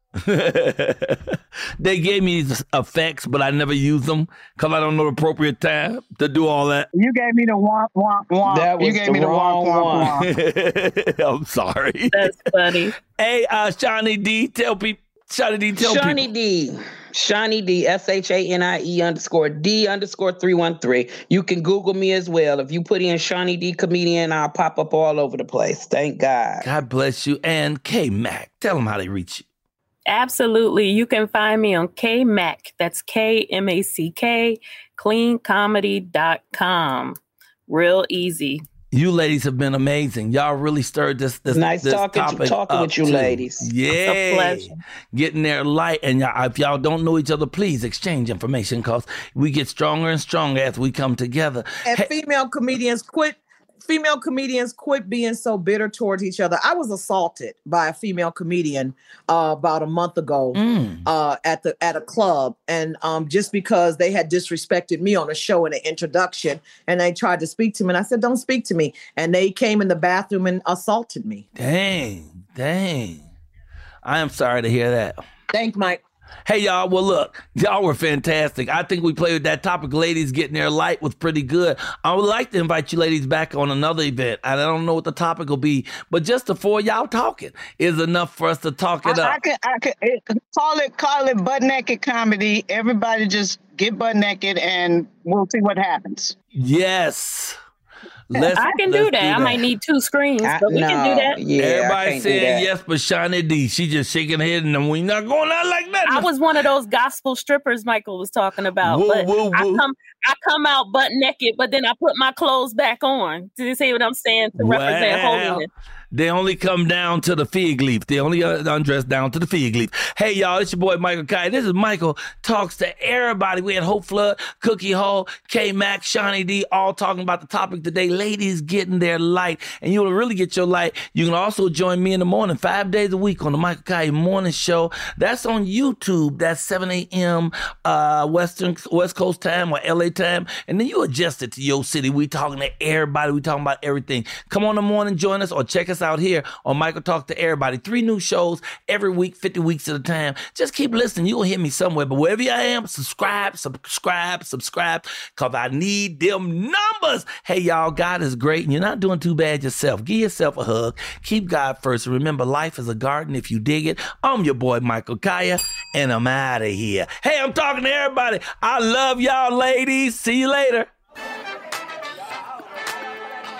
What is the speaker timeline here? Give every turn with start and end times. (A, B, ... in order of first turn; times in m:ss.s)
0:00.2-0:06.9 A
0:06.9-0:10.3 B
0:08.4-0:10.1 C
0:10.2-0:12.3 A
0:12.1-0:12.9 D
0:13.1-0:16.3 A
0:15.7-0:26.6 C
0:26.6-0:29.4 A
0:30.1-0:37.2 D
0:37.7-0:38.6 D
0:38.9-0:52.1 A
0:41.5-0:43.7 C
0:43.9-0:44.8 D
0:51.9-1:11.4 E
1:00.6-1:01.0 A
1:11.6-1:13.3 A
1:14.0-1:15.2 A
1:15.5-1:16.0 E
1:16.4-1:29.4 A
1:29.0-1:36.4 B
1:36.6-1:37.6 A
1:38.3-1:39.6 A
1:38.6-1:41.4 D
1:40.4-1:42.7 C
1:41.6-1:46.3 A
1:46.0-1:55.7 D
1:48.8-1:49.8 A
1:54.6-2:50.9 A